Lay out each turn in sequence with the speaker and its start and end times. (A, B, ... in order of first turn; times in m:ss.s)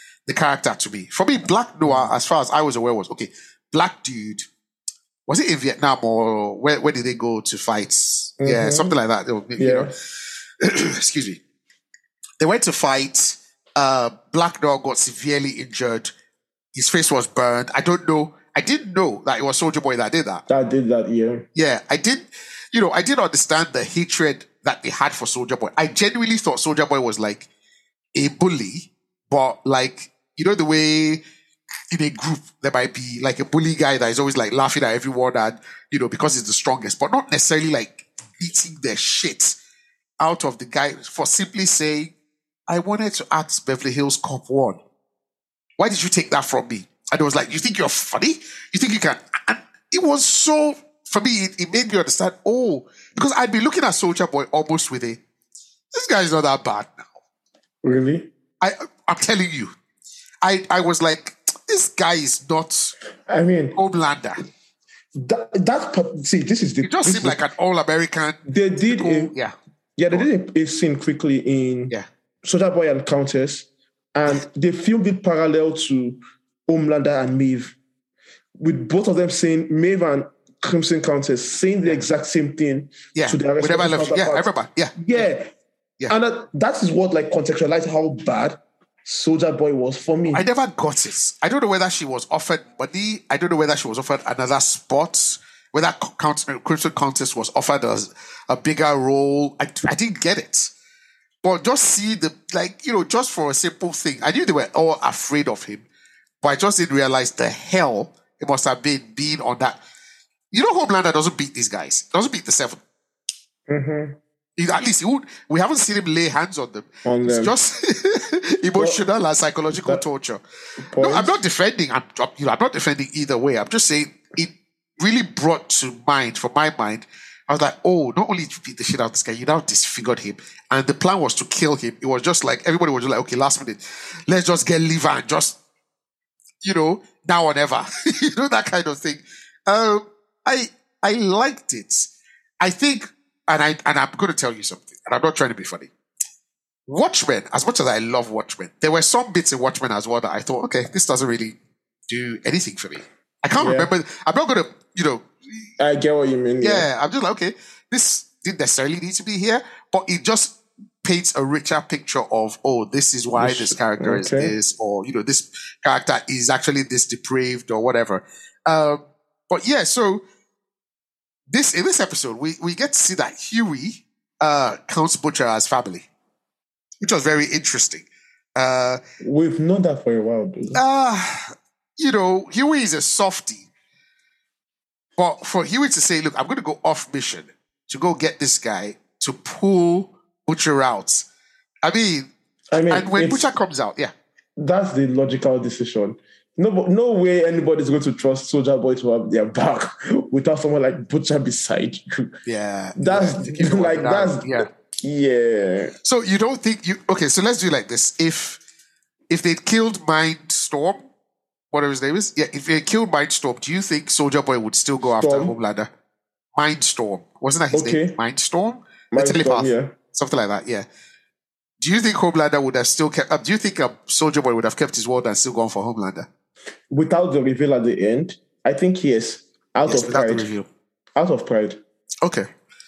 0:00.3-0:04.4 A
0:01.8-0:02.1 B
0:05.3-0:10.0 A
0:08.4-0:08.9 B
0:09.6-0:09.9 B
0:10.6-0:11.4 A
0:12.4-0:16.1 A
0:16.7-0:20.4 A
0:20.5-0:21.4 B
0:21.5-0:27.5 A
0:28.1-0:31.2 A
0:31.9-0:39.6 A
0:40.2-0:42.1 A
0:42.7-0:44.8 A
0:45.8-0:55.2 A
0:55.9-0:57.1 A
0:57.8-0:58.3 B
0:58.6-0:59.7 A
1:00.4-1:02.9 A
1:03.3-1:03.8 B
1:03.7-1:04.4 A
1:05.2-1:07.4 B
1:06.8-1:09.5 A
1:08.4-1:09.3 B
1:10.0-1:17.8 B
1:18.6-1:25.5 B
1:23.1-1:25.3 A
1:26.1-1:30.4 B
1:30.3-1:40.7 A
1:41.4-1:45.8 A
1:46.4-1:49.8 A
1:50.5-1:52.8 A
1:53.7-1:54.2 B
1:54.6-2:00.4 A
1:57.0-1:57.5 B
1:58.8-1:59.0 B
1:59.7-2:00.0 B
2:00.8-2:01.4 B
2:01.0-2:15.6 A
2:16.6-2:25.9 A
2:26.9-2:31.6 A
2:32.1-2:35.7 A
2:33.6-2:33.9 B
2:35.8-2:36.9 B
2:36.6-2:50.2 A
2:43.4-2:44.5 B
2:51.5-2:56.0 A
2:57.0-2:59.0 A
2:59.2-3:00.8 B
3:00.7-3:03.7 A
3:05.2-3:11.2 A
3:11.8-3:14.1 A
3:12.7-3:13.5 B
3:14.6-3:22.3 B
3:22.4-3:24.7 A
3:23.0-3:25.9 B
3:26.0-3:28.6 A
3:29.3-3:31.1 A
3:31.7-3:35.9 A
3:35.2-3:35.6 B
3:36.5-3:40.8 A
3:37.7-3:38.2 B
3:39.1-3:39.9 B
3:41.8-3:46.3 A
3:46.9-3:50.5 B
3:49.9-3:50.7 A
3:51.2-3:51.8 B
3:52.2-3:52.5 A